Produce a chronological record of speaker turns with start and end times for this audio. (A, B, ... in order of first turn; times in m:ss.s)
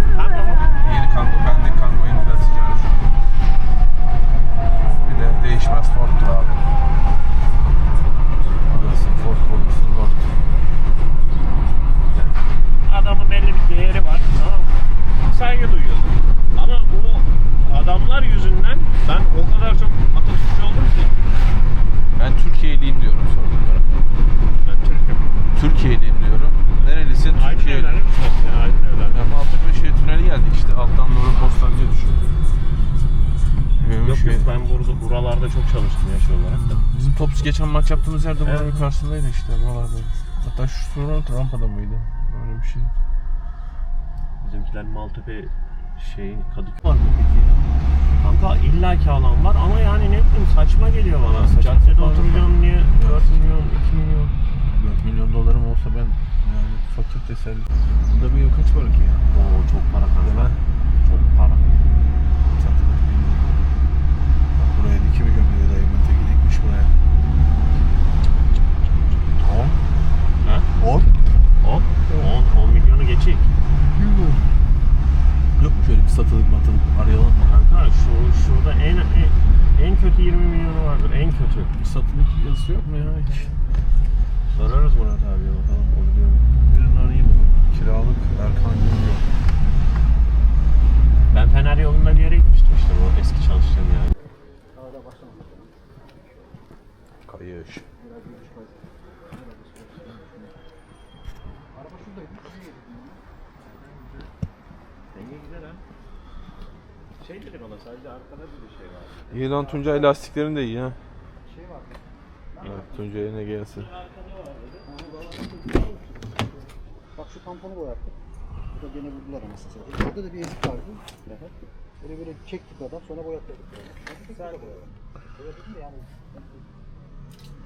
0:00.1-0:00.7 A
0:00.8-0:03.1 B
0:04.8-0:05.3 A
0:05.0-0:06.7 B
0:08.7-0:10.3 B
0:12.2-0:21.2 A
0:22.2-0:24.0 B
0:24.6-0:25.4 A
0:25.5-0:28.0 B
0:26.7-0:29.3 A
0:29.1-0:32.3 B
0:33.8-0:34.5 B
0:34.0-0:36.8 A
0:36.5-0:42.9 B
0:38.4-0:38.9 A
0:44.4-0:47.6 A
0:48.2-0:54.3 A
0:51.2-0:53.4 B
0:54.6-0:59.3 B
0:59.3-1:01.6 A
1:00.2-1:00.6 B
1:02.6-1:03.8 B
1:04.6-1:06.9 B
1:09.4-1:09.8 B
1:10.4-1:10.7 A
1:10.7-1:11.1 B
1:11.6-1:13.5 A
1:14.1-1:14.4 C
1:15.6-1:17.7 B
1:17.6-1:21.7 A
1:21.8-1:23.5 B
1:24.5-1:27.6 A
1:27.7-1:29.2 B
1:31.3-1:34.1 A
1:34.7-1:35.7 C
1:37.2-1:37.8 B
1:38.0-1:38.8 C
1:39.6-1:40.5 C
1:41.7-1:43.2 C
1:43.6-1:44.3 A
1:45.1-1:45.8 A
1:47.2-1:49.5 A
1:49.3-1:51.0 B
1:51.5-1:52.0 C
1:52.6-1:53.9 B
1:53.7-1:55.8 A
1:54.9-1:55.3 C
1:57.2-1:58.1 C
1:58.7-2:01.0 C
2:01.2-2:01.5 A
2:02.0-2:04.8 C
2:04.3-2:04.8 A
2:05.4-2:06.1 C